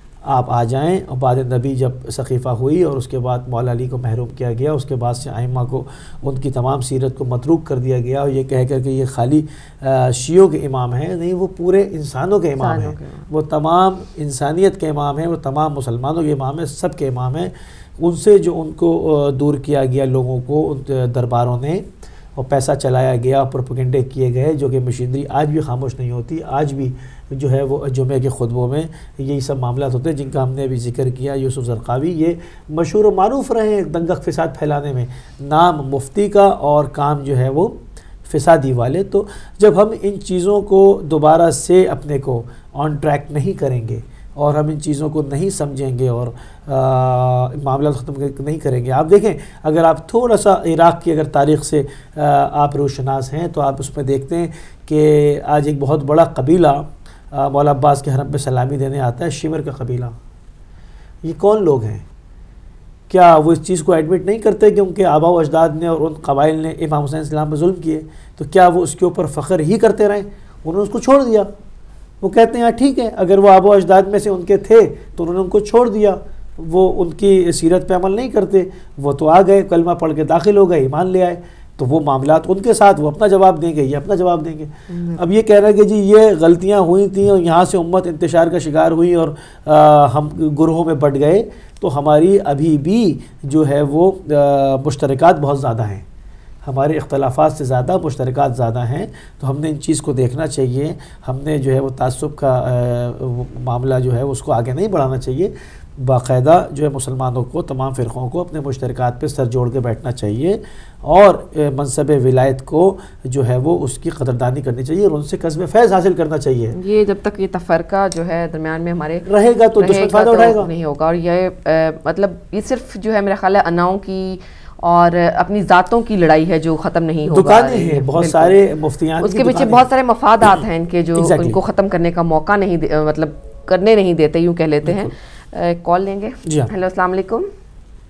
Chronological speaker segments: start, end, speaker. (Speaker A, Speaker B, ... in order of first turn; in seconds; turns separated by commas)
Speaker A: 0.3-60.2, Speaker B: 12.6-13.3, Speaker A: 61.2-62.0, Speaker A: 63.1-71.5, Speaker A: 72.2-96.0, Speaker B: 84.9-85.2, Speaker A: 96.6-116.8, Speaker B: 116.7-119.3, Speaker A: 119.2-120.7, Speaker B: 119.8-128.6, Speaker A: 127.3-129.9, Speaker B: 129.2-137.5, Speaker A: 131.2-131.6, Speaker A: 134.8-135.1, Speaker A: 136.4-136.7